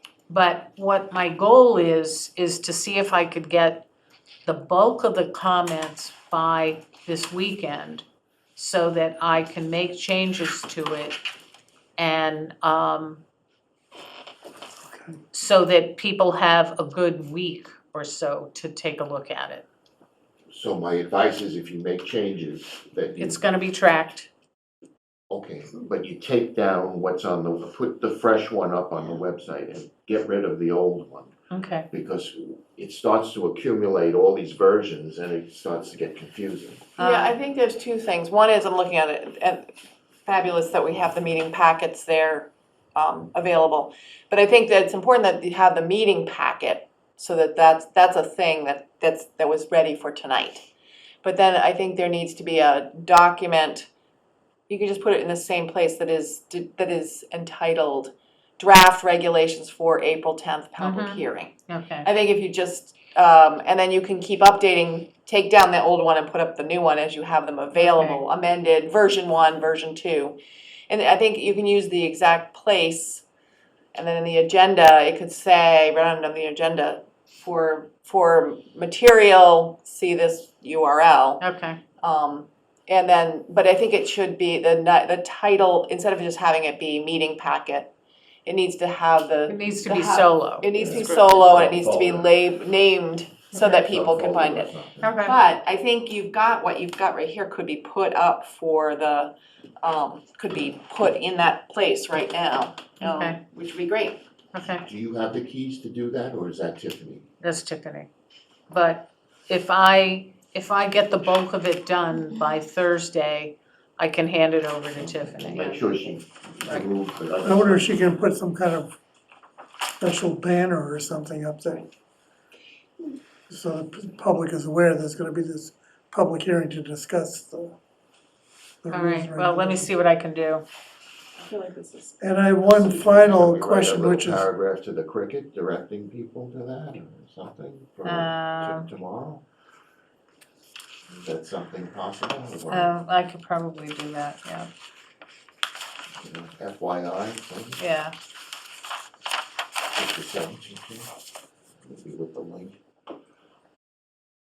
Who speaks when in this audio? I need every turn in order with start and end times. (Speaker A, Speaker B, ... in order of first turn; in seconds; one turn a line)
Speaker A: 0.3-3.9
Speaker A: 4.5-8.0
Speaker A: 8.6-11.2
Speaker A: 12.0-13.2
Speaker A: 15.3-19.6
Speaker B: 20.5-23.4
Speaker A: 23.2-24.3
Speaker B: 25.3-31.3
Speaker A: 31.5-31.9
Speaker B: 31.9-36.8
Speaker A: 37.0-37.3
Speaker C: 37.0-39.7
Speaker C: 40.2-50.7
Speaker C: 51.2-53.9
Speaker C: 54.7-70.3
Speaker A: 60.8-62.1
Speaker A: 67.7-68.2
Speaker C: 70.9-73.2
Speaker C: 73.9-81.4
Speaker A: 81.4-81.8
Speaker C: 82.0-87.9
Speaker C: 88.5-104.2
Speaker A: 89.5-90.7
Speaker B: 90.7-92.3
Speaker B: 93.5-95.2
Speaker A: 95.0-95.4
Speaker A: 103.0-103.4
Speaker A: 104.5-104.8
Speaker B: 104.8-107.3
Speaker A: 107.4-108.1
Speaker A: 108.7-115.8
Speaker B: 115.0-117.9
Speaker D: 117.4-119.0
Speaker D: 120.0-121.8
Speaker D: 123.5-127.7
Speaker D: 128.8-129.9
Speaker A: 128.9-130.6
Speaker C: 131.4-132.3
Speaker D: 132.2-134.4
Speaker B: 132.7-139.4
Speaker A: 138.0-138.9
Speaker B: 141.1-142.9
Speaker A: 142.7-144.7
Speaker B: 146.2-147.8
Speaker A: 147.8-148.1
Speaker B: 149.9-151.1
Speaker B: 151.8-152.7